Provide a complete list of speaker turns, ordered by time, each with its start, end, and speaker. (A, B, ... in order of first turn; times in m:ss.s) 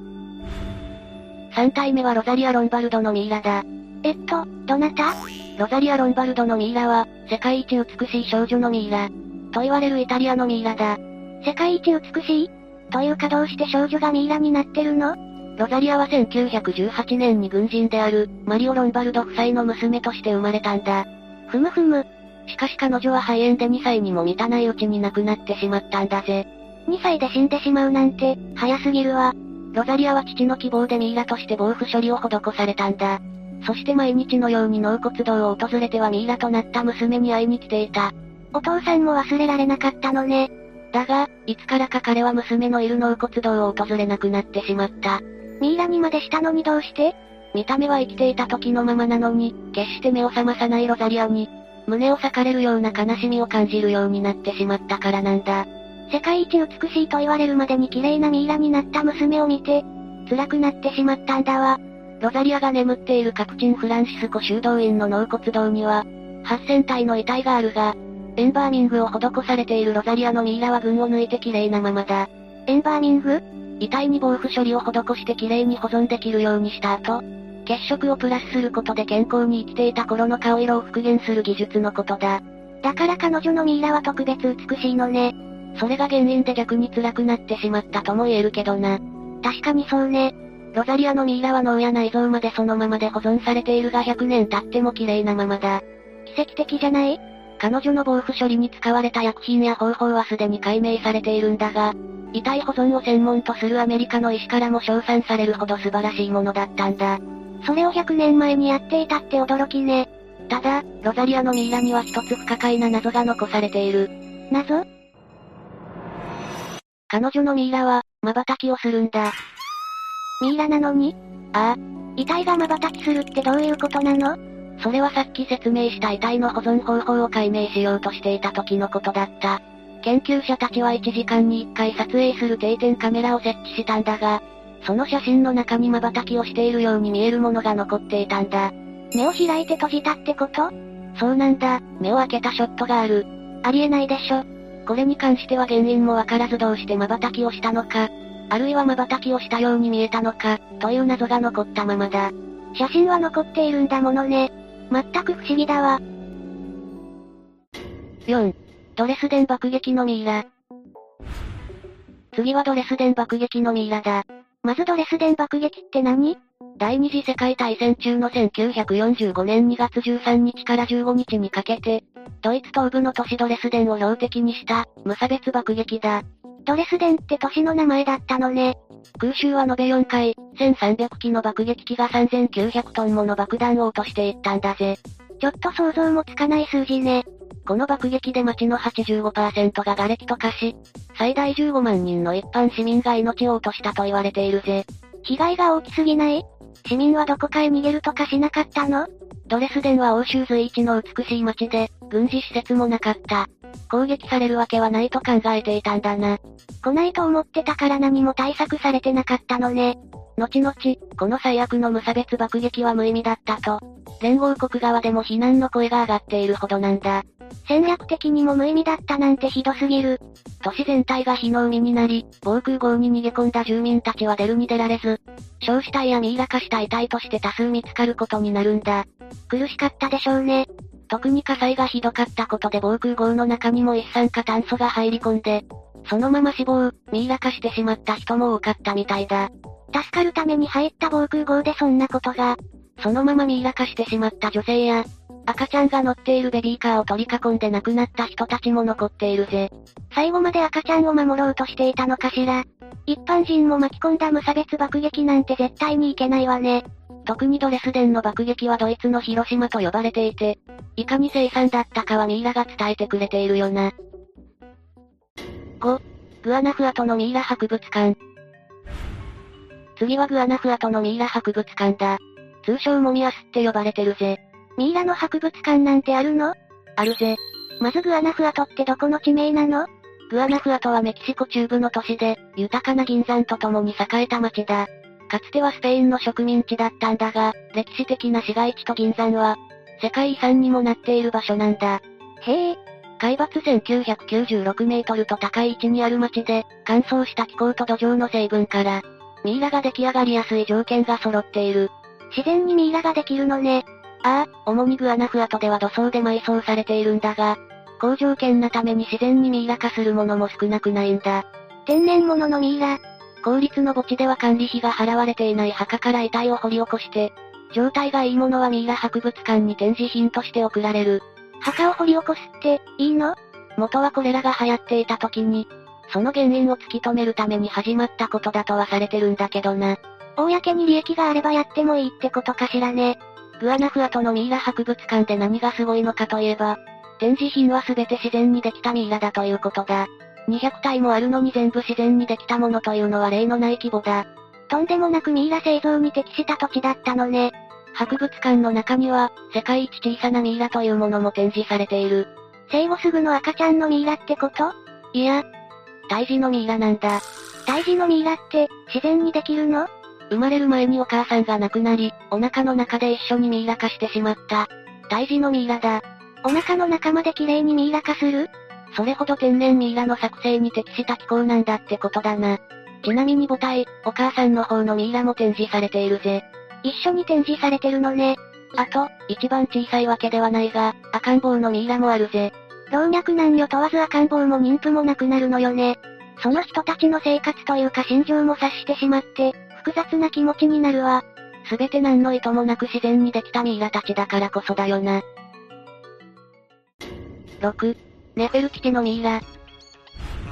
0:01.5-1:54.8 A
1:57.1-1:59.3 A
2:00.4-2:36.0 A
2:38.3-2:40.4 A
2:42.3-4:23.9 A
4:25.8-4:28.2 A
4:30.0-5:55.4 A
5:56.1-6:35.2 A
6:37.6-6:39.4 A